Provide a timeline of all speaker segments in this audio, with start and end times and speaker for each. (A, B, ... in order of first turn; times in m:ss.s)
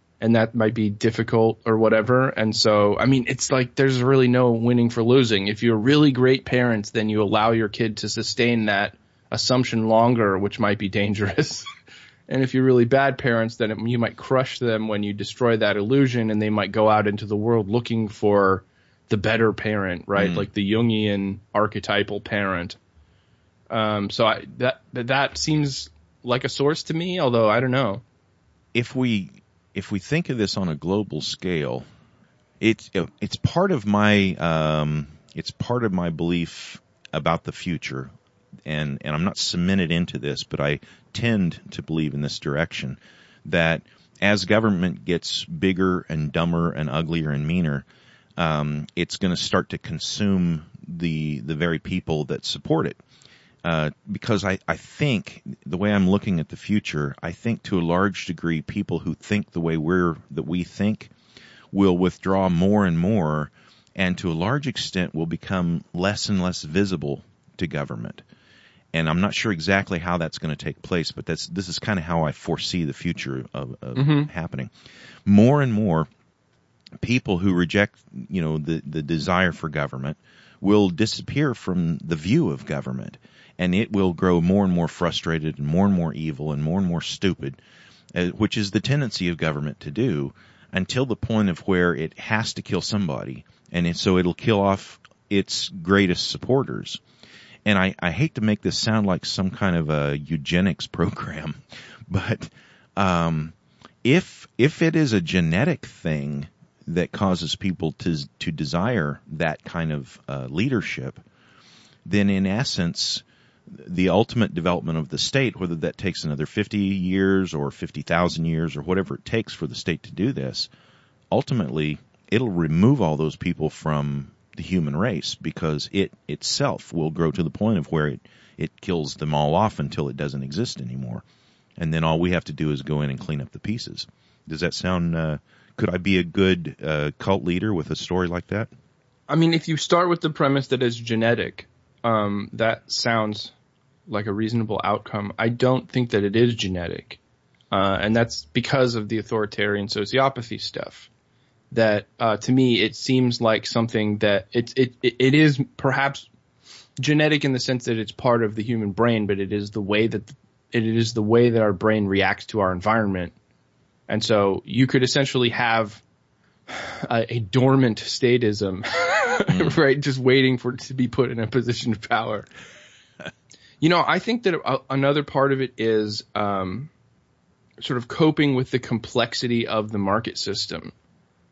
0:00.2-0:11.7 A
0:12.3-0:22.8 A
0:20.2-0:20.4 B
0:23.7-0:28.0 A
0:28.7-0:31.8 B
0:32.6-0:38.1 B
0:38.6-0:47.8 B
0:48.4-0:53.0 B
0:53.6-1:01.1 B
1:01.7-1:08.2 B
1:08.9-1:14.7 B
1:14.0-1:14.3 A
1:15.2-1:16.1 B
1:17.0-1:27.6 B
1:28.1-1:37.0 B
1:37.6-1:51.2 B
1:52.0-2:00.7 B
2:01.3-2:11.2 B
2:11.8-2:18.7 B
2:19.3-2:23.5 A
2:24.1-2:27.2 A
2:27.7-2:31.1 A
2:31.7-2:36.3 A
2:37.0-2:43.3 A
2:44.1-2:46.0 A
2:46.7-2:52.5 A
2:49.5-2:49.8 B
2:53.8-2:56.9 A
2:57.8-3:00.9 A